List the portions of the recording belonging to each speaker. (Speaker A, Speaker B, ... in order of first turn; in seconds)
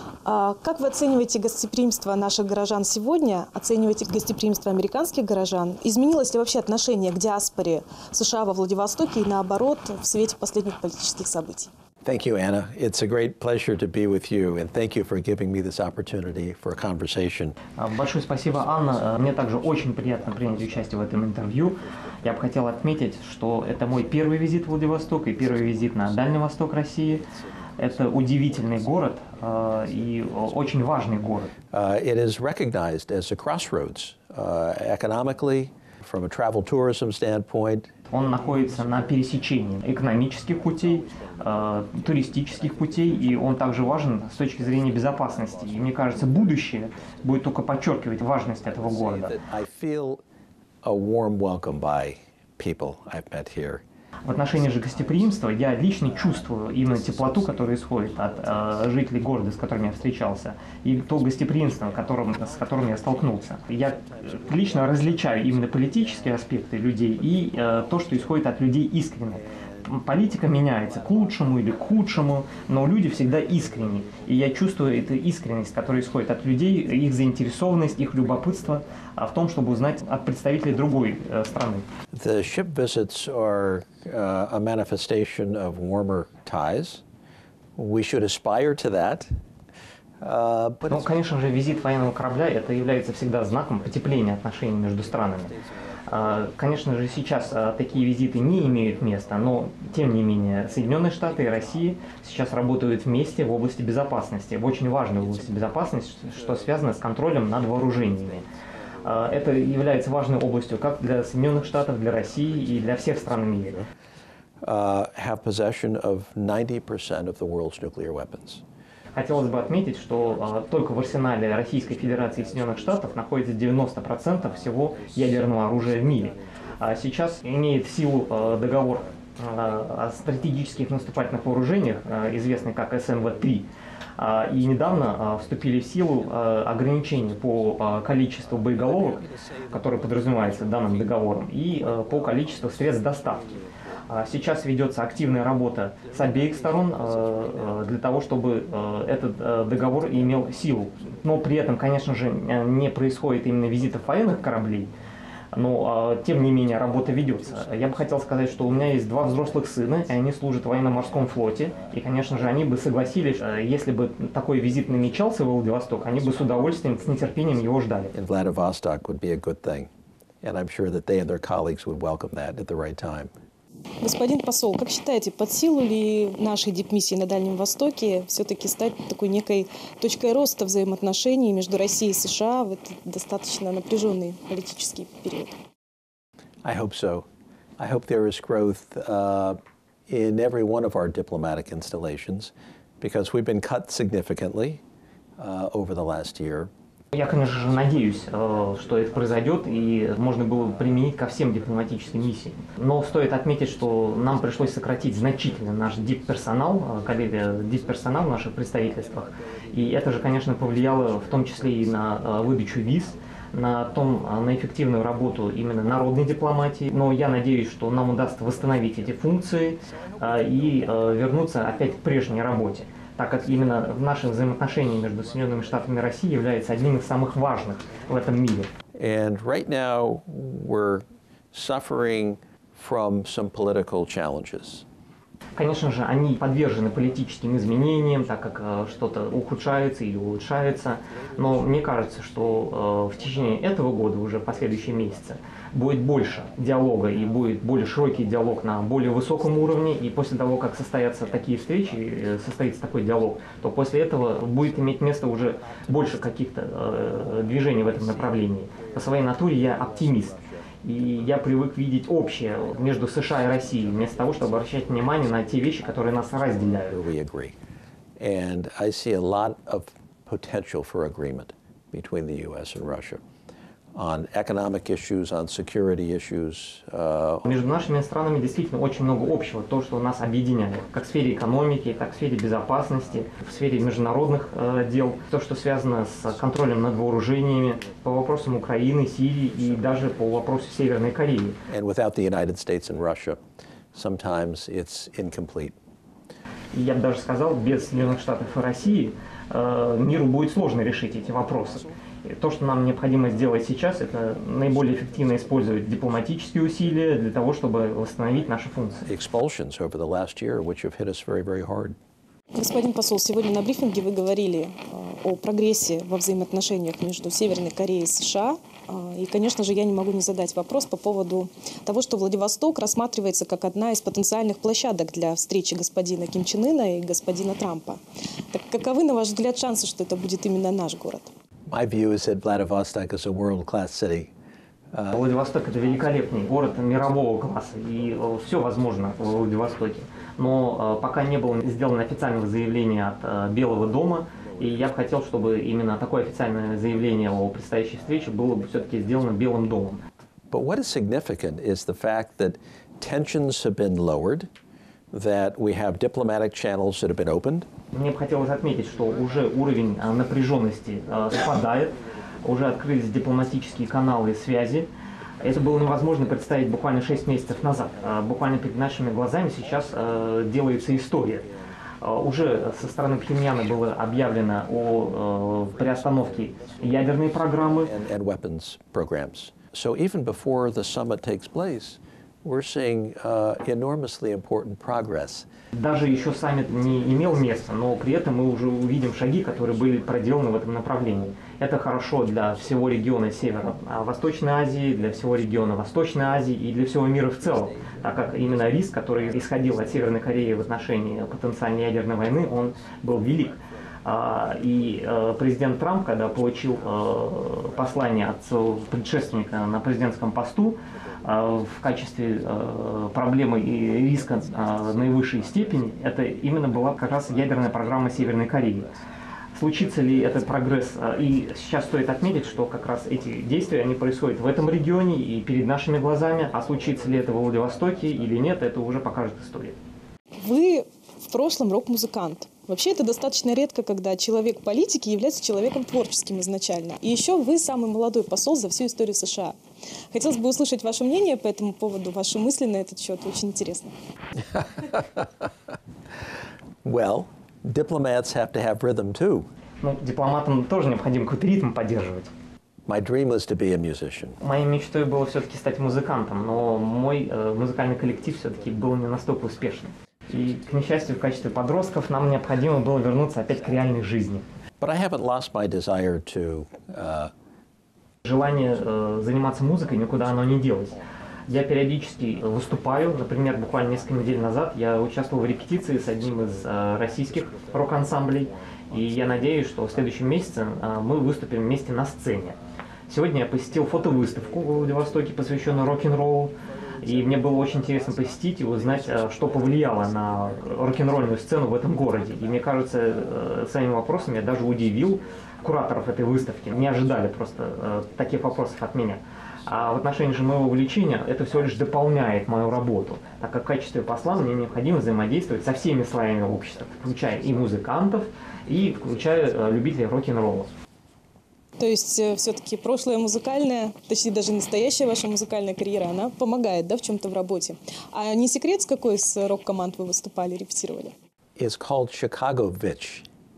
Speaker A: 0.2-11.7, 174.0-185.5, 312.6-328.0, 328.5-331.3, 430.4-439.6, 440.1-443.9, 511.8-521.1
Speaker B: 12.0-17.6, 18.5-21.0, 25.3-26.5, 27.2-31.1, 31.7-37.9, 38.9-39.2, 40.5-46.7, 48.5-50.2, 50.8-53.8, 54.5-58.9, 61.1-66.5, 67.2-68.4, 69.4-70.2, 70.8-72.7, 73.3-74.7, 77.7-78.8, 82.1-87.0, 87.8-89.3, 90.2-91.1, 95.1-95.6, 96.1-96.7, 97.5-97.8, 98.6-99.5, 101.5-101.7, 112.7-113.8, 114.6-118.6, 121.8-123.0, 125.9-126.3, 138.7-140.9, 141.9-143.7, 146.2-147.8, 150.3-150.7, 168.1-169.9, 170.4-173.3, 186.7-187.3, 187.8-194.8, 195.4-196.7, 204.3-205.4, 209.0-209.4, 209.9-212.9, 218.5-218.9, 220.1-221.2, 228.9-234.8, 266.9-267.6, 268.2-273.2, 273.9-277.5, 291.7-293.4, 293.9-295.8, 309.1-312.0, 331.7-334.3, 350.5-354.5, 355.1-357.7, 375.8-385.5, 444.5-445.4, 446.8-449.5, 452.9-454.4, 464.8-467.3, 521.6-523.3
Speaker C: 17.8-27.2, 27.8-31.5, 38.1-49.4, 54.2-81.9, 90.9-95.6, 96.1-108.5, 109.0-113.8, 119.1-143.6, 144.1-154.9, 155.5-168.1, 197.1-228.7, 235.6-267.0, 277.4-291.6, 296.7-309.1, 335.1-350.0, 357.9-364.9, 365.4-371.5, 372.0-377.9, 385.7-418.9, 419.5-429.8, 449.8-452.3, 454.4-464.4, 468.2-482.6, 483.1-510.7